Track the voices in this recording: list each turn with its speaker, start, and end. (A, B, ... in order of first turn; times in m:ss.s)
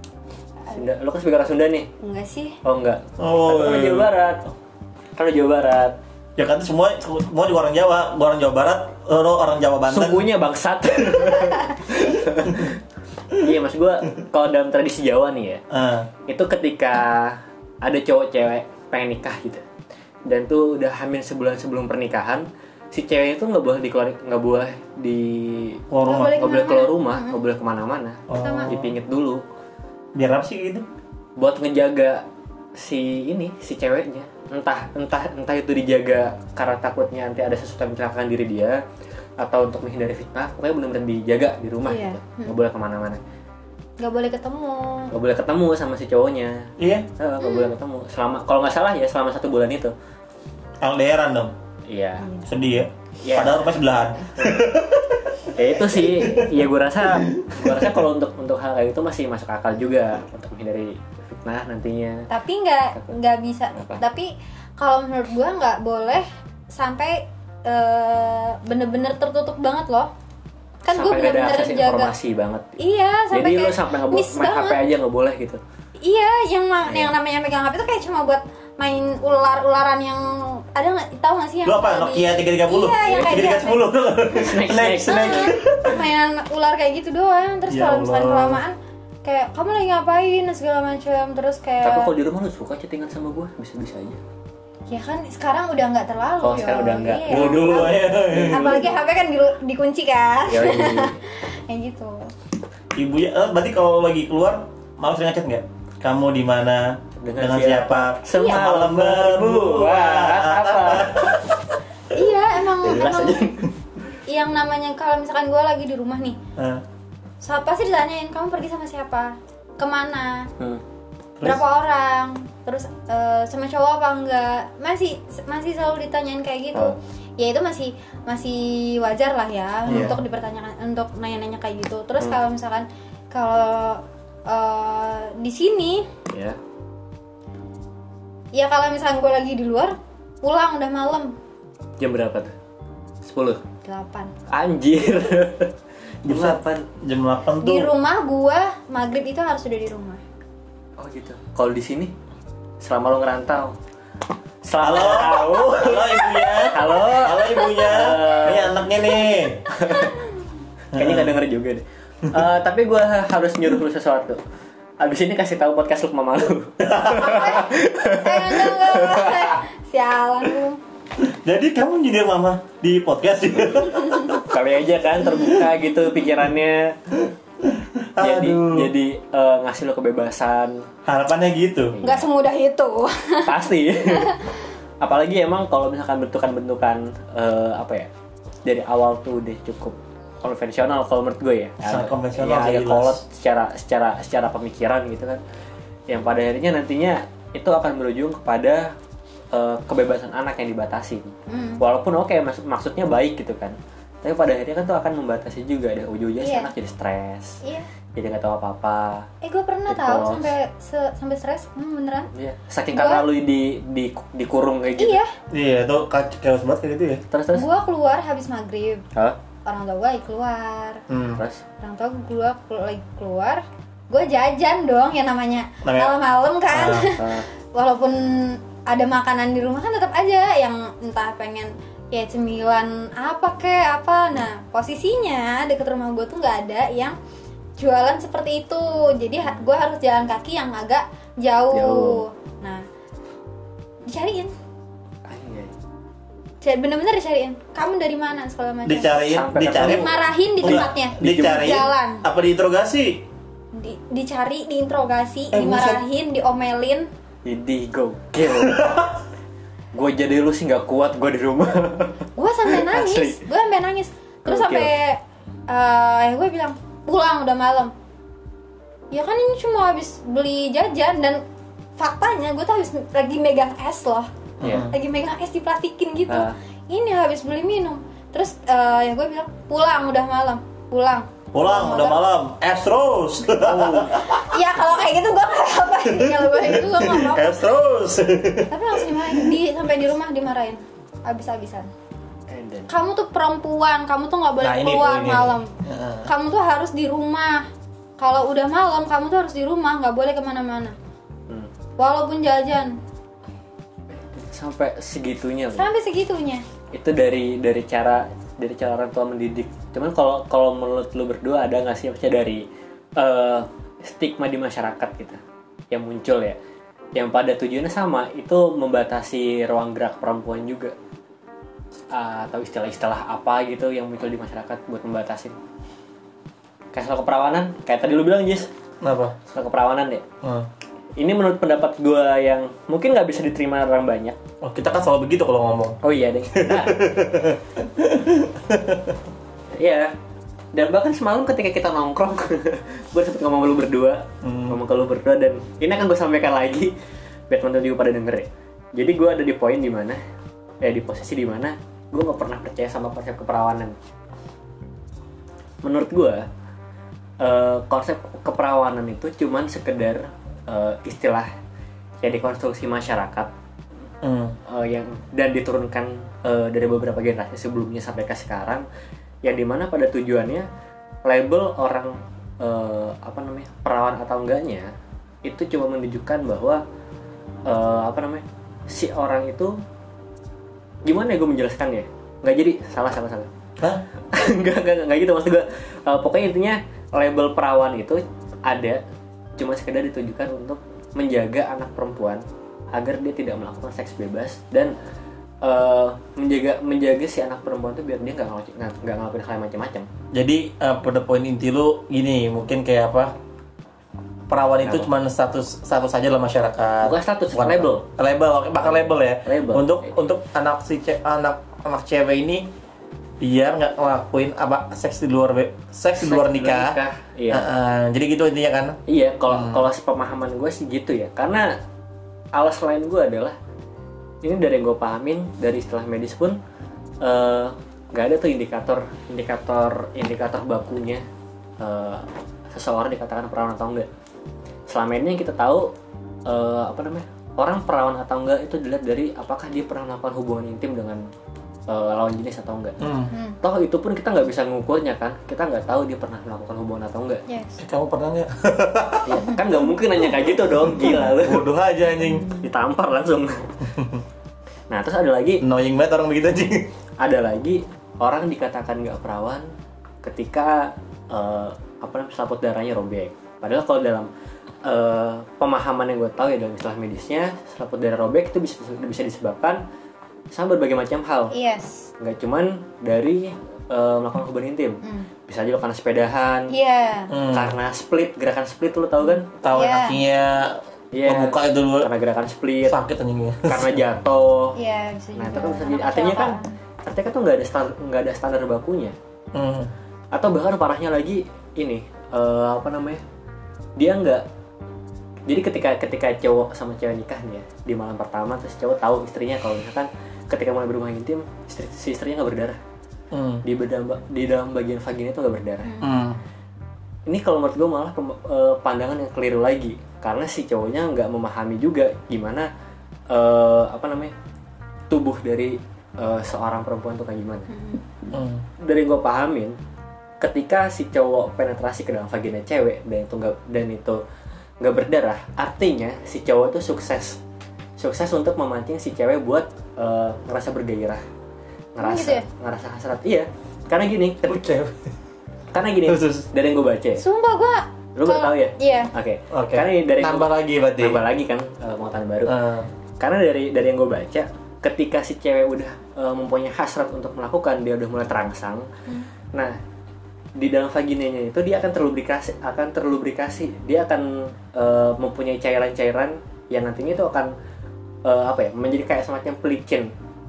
0:00.7-0:01.9 A
0:02.0-0:02.6 B
0:02.6-0:04.5 A
0:03.2-0:04.1 C
0:05.2-0:06.0 A
0:06.4-0:10.2 C
0:09.9-0:12.8 A
0:11.4-0:11.8 B
0:13.3-0:15.6 A
0:15.7-0:16.1 C
0:16.3-0:19.6 A
0:20.2-0:25.8 A
0:25.9-0:26.5 C
0:26.0-0:27.4 B
0:26.4-0:29.4 A
0:28.3-0:28.9 C
0:28.4-0:28.7 B
0:30.1-0:30.8 C
0:31.4-0:32.2 A
0:32.8-0:38.8 A
0:39.4-0:43.2 A
0:41.8-0:42.6 B
0:44.0-0:45.1 B
0:45.1-0:49.9 A
0:46.8-0:47.1 C
0:47.4-0:47.7 B
0:50.8-0:51.5 C
0:51.9-0:52.2 A
0:52.2-0:52.5 B
0:52.4-0:58.0 C
0:53.2-0:53.6 A
0:55.5-1:02.3 A
1:02.3-1:10.1 B
1:03.7-1:04.0 A
1:10.8-1:12.1 B
1:10.9-1:12.7 A
1:12.8-1:14.8 B
1:13.3-1:15.6 A
1:16.0-1:23.9 B
1:16.9-1:17.1 A
1:21.6-1:26.0 C
1:23.0-1:23.4 A
1:24.3-1:25.5 A
1:25.0-1:32.1 B
1:27.7-1:28.6 C
1:31.8-1:34.2 A
1:34.9-1:42.3 B
1:36.4-1:39.0 A
1:37.3-1:38.8 C
1:40.5-1:41.2 A
1:42.9-1:51.5 C
1:47.2-1:51.5 A
1:48.3-1:48.6 B
1:52.1-1:53.5 B
1:52.8-1:53.6 A
1:54.2-1:56.4 B
1:56.6-1:56.8 C
1:57.4-2:00.5 B
2:01.4-2:16.1 B
2:09.9-2:10.2 C
2:09.9-2:10.2 A
2:16.3-2:16.6 A
2:18.5-2:21.3 B
2:22.0-2:22.5 A
2:23.2-2:23.6 A
2:23.8-2:24.3 B
2:24.5-2:25.7 A
2:26.2-2:26.8 A
2:26.2-2:27.9 C
2:27.6-2:30.2 B
2:31.0-2:32.1 A
2:32.8-2:33.8 A
2:34.6-2:38.8 A
2:34.8-2:39.6 C
2:37.3-2:38.3 B
2:39.7-2:40.1 A
2:39.8-2:40.2 B
2:40.9-2:41.3 C
2:40.9-2:44.4 A
2:45.0-2:49.6 A
2:46.8-2:47.4 C
2:47.1-2:50.8 B
2:51.2-2:54.4 C
2:54.0-2:54.3 B
2:54.4-2:57.0 A
2:57.6-2:58.9 C
2:58.2-3:00.9 A
3:01.0-3:02.0 C
3:02.0-3:02.3 A
3:02.0-3:03.6 B
3:03.4-3:04.4 A
3:04.1-3:04.5 B
3:05.0-3:08.1 A
3:08.6-3:15.4 A
3:11.8-3:13.2 C
3:16.1-3:18.9 A
3:19.5-3:27.6 A
3:21.5-3:21.8 B
3:26.4-3:26.7 B
3:28.2-3:29.3 A
3:29.4-3:32.3 B
3:29.9-3:30.5 A
3:32.3-3:35.2 A
3:32.9-3:33.2 B
3:35.0-3:35.3 B
3:35.5-3:37.2 C
3:37.3-3:37.6 A
3:37.5-3:39.0 B
3:39.6-3:41.0 B
3:41.1-3:41.4 C
3:41.4-3:41.6 A
3:41.8-3:57.2 B
3:45.8-3:46.1 C
3:46.7-3:47.1 C
3:47.2-3:47.5 A
3:57.8-4:02.8 B
4:01.7-4:02.2 A
4:04.1-4:04.5 B
4:05.2-4:05.7 A
4:06.6-4:12.2 B
4:08.8-4:13.2 C
4:09.2-4:11.9 A
4:13.7-4:17.1 B
4:15.5-4:16.0 C
4:17.4-4:18.9 A
4:18.4-4:19.1 C
4:19.9-4:23.4 A
4:22.4-4:27.9 B
4:24.4-4:24.9 A
4:29.1-4:31.4 B
4:32.0-4:42.2 B
4:34.6-4:34.9 C
4:34.6-4:34.9 A
4:36.3-4:36.5 A
4:41.5-4:44.4 C
4:43.5-4:44.3 A
4:44.3-4:47.6 B
4:46.1-4:49.6 C
4:48.7-4:51.9 B
4:52.5-4:52.9 A
4:52.9-4:55.7 B
4:54.6-4:56.3 C
4:56.2-4:57.7 B
4:58.2-5:01.0 B
5:02.0-5:03.0 B
5:04.1-5:05.9 A
5:05.8-5:06.6 B
5:06.9-5:12.6 A
5:13.2-5:15.4 A
5:15.9-5:16.6 A
5:17.1-5:20.9 A
5:22.1-5:25.5 A
5:26.9-5:28.7 A
5:29.0-5:29.4 C
5:29.5-5:30.2 A
5:30.4-5:30.7 C
5:31.2-5:34.4 A
5:34.6-5:36.0 C
5:36.0-5:37.0 A
5:36.5-5:39.2 C
5:39.7-5:40.1 A
5:40.7-5:46.9 A
5:44.4-5:44.8 C
5:47.5-5:50.2 A
5:50.8-5:53.9 A
5:55.8-5:56.4 A
5:57.4-6:01.5 A
6:02.2-6:03.5 A
6:04.2-6:04.6 C
6:04.7-6:08.8 A
6:09.4-6:10.7 A
6:11.2-6:14.9 A
6:15.4-6:16.8 A
6:17.6-6:19.8 A
6:21.0-6:23.5 A
6:24.3-6:29.0 A
6:29.6-6:34.9 A
6:35.6-6:40.1 A
6:40.3-6:43.3 C
6:44.5-6:52.7 C
6:47.0-6:48.0 A
6:48.8-6:50.0 A
6:53.4-6:57.0 C
6:56.2-6:57.6 A
6:57.5-6:59.0 C
6:59.1-7:01.8 A
6:59.5-6:59.8 C
7:02.5-7:03.6 A
7:04.4-7:06.6 A
7:07.2-7:11.2 A
7:11.8-7:14.1 A
7:14.9-7:15.9 A
7:16.4-7:21.3 A
7:21.9-7:23.0 A
7:23.0-7:23.3 C
7:23.3-7:23.6 B
7:23.6-7:27.4 A
7:27.5-7:27.8 B
7:27.8-7:29.4 C
7:29.2-7:31.6 A
7:30.4-7:32.5 C
7:32.2-7:32.6 B
7:32.6-7:33.7 A
7:33.9-7:34.2 C
7:34.9-7:35.6 A
7:35.6-7:36.9 C
7:37.2-7:39.7 A
7:40.2-7:44.3 A
7:44.8-7:49.8 A
7:50.5-7:51.5 A
7:51.5-7:52.1 B
7:52.2-7:56.7 A
7:55.0-7:55.3 B
7:56.7-7:57.3 B
7:57.3-7:57.7 C
7:57.5-7:59.5 A
7:59.6-8:02.1 C
7:59.7-8:00.2 B
8:01.1-8:03.0 A
8:02.9-8:04.0 C
8:03.7-8:04.8 A
8:04.8-8:06.7 B
8:05.4-8:09.1 A
8:09.5-8:09.9 C
8:10.3-8:13.2 A
8:14.0-8:14.4 A
8:15.5-8:22.8 A
8:23.3-8:23.6 C
8:23.6-8:25.9 A
8:25.8-8:26.1 B
8:26.0-8:26.4 C
8:27.3-8:32.7 A
8:33.3-8:34.3 A
8:35.1-8:37.7 A
8:37.7-8:38.0 B
8:38.3-8:38.6 C
8:38.8-8:39.8 A
8:40.4-8:44.2 A
8:44.8-8:47.4 A
8:48.0-8:51.2 A
8:52.0-8:54.6 A
8:52.0-8:52.4 B
8:54.4-8:55.0 C
8:55.7-8:57.2 A
8:56.0-8:56.5 C
8:57.2-8:59.1 B
8:58.1-9:02.6 A
8:59.5-9:01.2 C
9:02.4-9:02.9 C
9:03.2-9:08.9 A
9:10.6-9:17.5 A
9:18.2-9:20.1 A